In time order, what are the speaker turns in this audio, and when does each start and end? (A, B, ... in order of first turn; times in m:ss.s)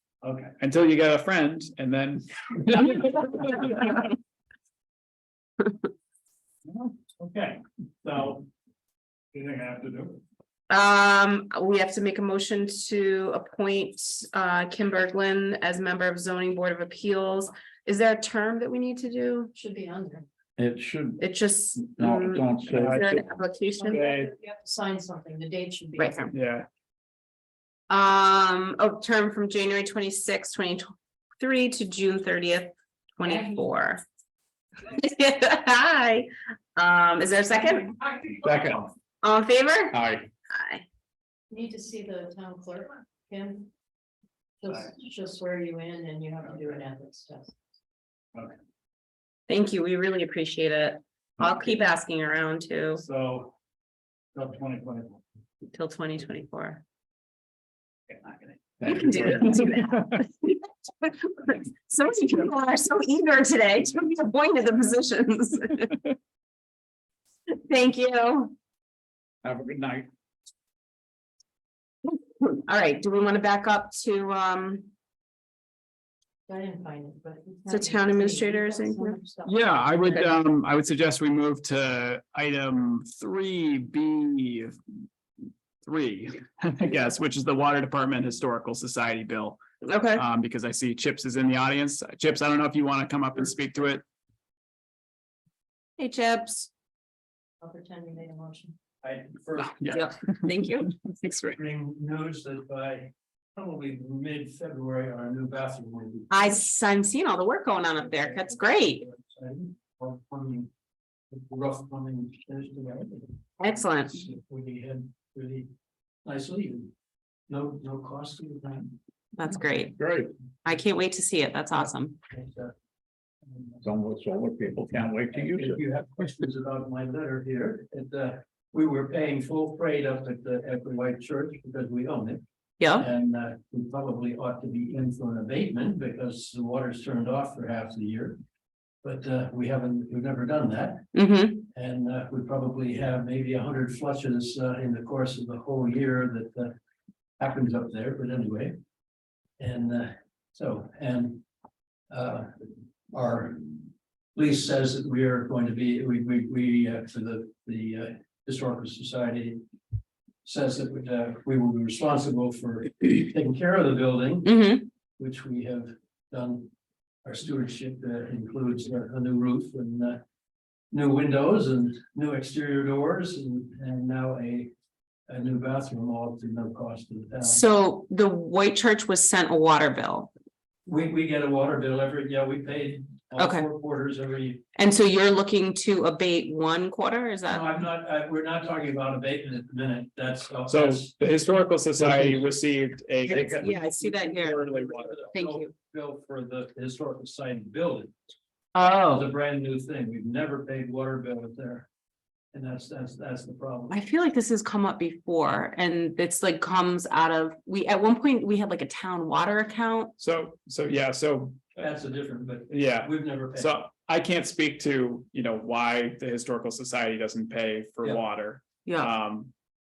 0:00.2-0:00.5 A
0:00.6-0:03.8 B
0:06.7-0:08.5 A
0:09.3-0:10.2 A
0:10.7-0:19.5 C
0:19.6-0:20.2 D
0:20.6-0:21.2 E
0:21.2-0:24.0 C
0:21.8-0:23.2 E
0:22.7-0:23.2 B
0:23.8-0:26.3 D
0:23.9-0:24.3 B
0:26.0-0:26.3 C
0:26.3-0:26.7 B
0:27.9-0:30.9 C
0:31.4-0:34.0 C
0:33.2-0:33.7 D
0:34.9-0:37.9 C
0:38.4-0:38.9 E
0:39.2-0:40.0 C
0:39.9-0:40.3 E
0:40.5-0:40.8 C
0:41.5-0:43.7 D
0:44.6-0:47.5 D
0:49.5-0:53.0 C
0:53.0-0:53.5 A
0:54.3-0:55.2 A
0:55.7-0:56.8 C
0:58.1-0:58.6 A
0:58.8-0:59.6 E
0:58.9-1:06.0 C
1:07.6-1:08.5 C
1:09.4-1:10.1 E
1:12.0-1:14.9 C
1:16.5-1:20.2 D
1:17.7-1:19.2 C
1:19.4-1:24.8 B
1:25.8-1:29.6 B
1:29.8-1:30.2 C
1:30.2-1:34.0 B
1:36.0-1:36.7 C
1:37.6-1:38.8 D
1:39.0-1:40.1 A
1:39.7-1:40.5 B
1:39.9-1:40.9 C
1:41.1-1:41.6 B
1:41.5-1:46.6 A
1:46.3-1:49.0 C
1:48.0-1:50.7 A
1:51.3-1:53.5 A
1:53.6-1:54.2 C
1:54.1-1:55.7 A
1:56.2-1:56.9 A
1:57.5-1:59.0 A
1:59.4-2:00.0 C
2:00.0-2:00.3 E
2:00.6-2:02.2 C
2:02.3-2:02.7 A
2:03.4-2:03.8 A
2:03.8-2:05.8 E
2:05.3-2:12.4 A
2:12.8-2:13.1 C
2:13.0-2:18.4 A
2:19.0-2:21.1 A
2:21.1-2:21.6 C
2:21.7-2:26.8 A
2:27.4-2:28.8 A
2:29.6-2:31.4 A
2:32.1-2:32.5 A
2:33.1-2:39.6 A
2:40.4-2:44.6 A
2:44.4-2:44.9 C
2:45.2-2:46.7 A
2:47.2-2:50.2 A
2:50.9-2:54.7 A
2:55.3-2:57.6 A
2:57.4-3:00.3 C
3:00.9-3:04.6 A
3:03.4-3:03.7 C
3:04.8-3:07.7 C
3:07.5-3:11.1 A
3:10.7-3:15.2 B
3:12.0-3:12.5 A
3:13.3-3:14.6 C
3:13.3-3:18.1 A
3:15.3-3:15.7 C
3:18.8-3:19.3 C
3:19.1-3:21.9 A
3:22.5-3:24.0 A
3:23.9-3:30.1 C
3:30.2-3:31.7 B
3:31.8-3:33.9 A
3:32.7-3:39.5 B
3:38.8-3:39.1 C